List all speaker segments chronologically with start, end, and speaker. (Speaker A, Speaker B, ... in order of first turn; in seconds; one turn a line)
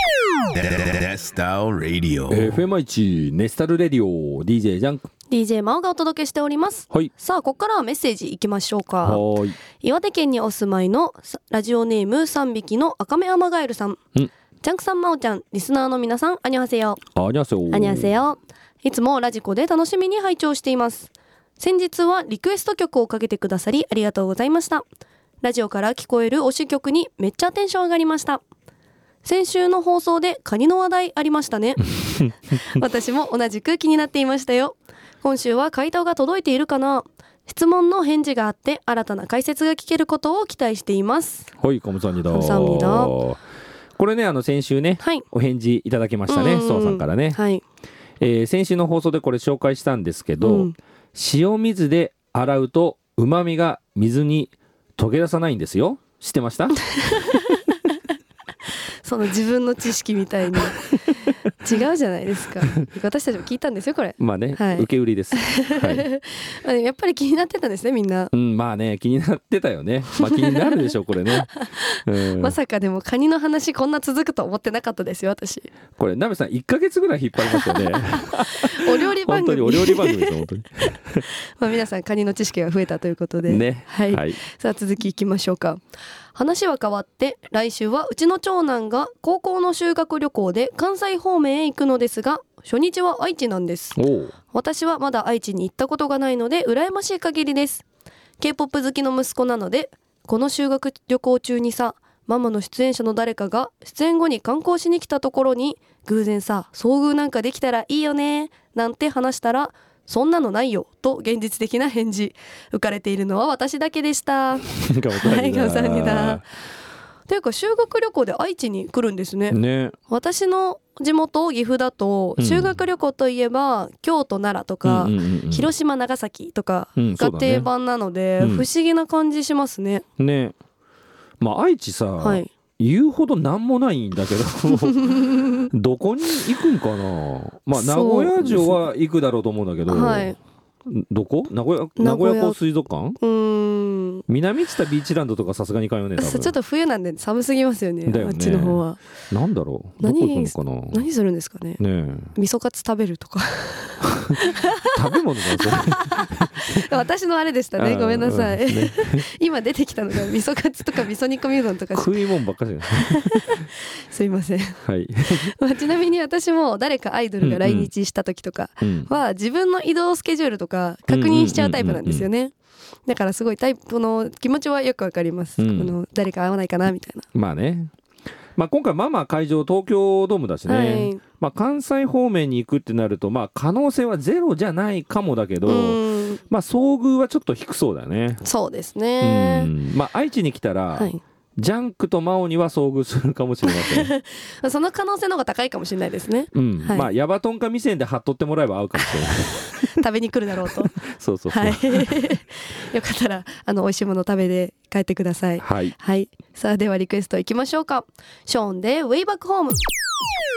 Speaker A: 0.5-2.5
Speaker B: 2.3-5.1
Speaker C: 5.3-9.2
Speaker B: 9.0-9.6
Speaker C: 9.8-14.0
Speaker C: 14.6-17.0
Speaker B: 17.2-18.1
Speaker C: 17.7-24.9
Speaker C: 25.4-28.4
Speaker C: 29.2-41.5
Speaker B: 41.6-43.4
Speaker C: 42.3-43.2
Speaker B: 44.0-47.4
Speaker C: 45.0-45.2
Speaker C: 46.3-47.6
Speaker B: 48.2-56.8
Speaker C: 50.4-50.7
Speaker C: 56.8-58.0
Speaker C: 59.0-60.9
Speaker C: 61.6-68.3
Speaker B: 64.2-66.1
Speaker B: 68.3-71.5
Speaker C: 70.2-75.7
Speaker B: 72.0-72.6
Speaker B: 76.0-81.2
Speaker C: 77.5-85.8
Speaker B: 83.4-84.4
Speaker C: 86.3-94.0
Speaker B: 94.0-94.3
Speaker C: 94.5-97.8
Speaker C: 98.4-116.5
Speaker B: 114.8-116.4
Speaker C: 117.3-130.0
Speaker B: 119.5-119.9
Speaker B: 122.4-122.8
Speaker B: 124.8-125.7
Speaker B: 127.0-127.7
Speaker B: 128.4-128.7
Speaker B: 130.2-130.5
Speaker B: 131.4-140.3
Speaker C: 132.2-132.5
Speaker C: 134.7-135.7
Speaker C: 137.7-138.8
Speaker C: 139.9-140.4
Speaker B: 140.8-143.2
Speaker C: 142.0-142.6
Speaker C: 143.2-144.2
Speaker B: 144.3-146.5
Speaker C: 146.2-149.0
Speaker B: 148.1-151.0
Speaker C: 150.0-151.8
Speaker B: 151.8-152.3
Speaker C: 152.3-162.1
Speaker B: 154.9-156.8
Speaker B: 157.8-159.2
Speaker B: 161.9-163.7
Speaker C: 163.0-164.8
Speaker B: 164.8-165.5
Speaker C: 165.5-172.5
Speaker B: 167.4-167.9
Speaker B: 168.8-169.1
Speaker B: 171.1-172.3
Speaker C: 173.1-177.3
Speaker B: 175.6-176.0
Speaker B: 177.3-177.9
Speaker B: 178.6-188.4
Speaker C: 180.7-181.2
Speaker C: 185.6-186.4
Speaker C: 188.4-189.7
Speaker B: 189.2-194.1
Speaker C: 190.9-191.2
Speaker C: 193.7-197.1
Speaker B: 196.5-200.0
Speaker C: 199.1-209.8
Speaker B: 200.7-202.3
Speaker B: 205.6-205.9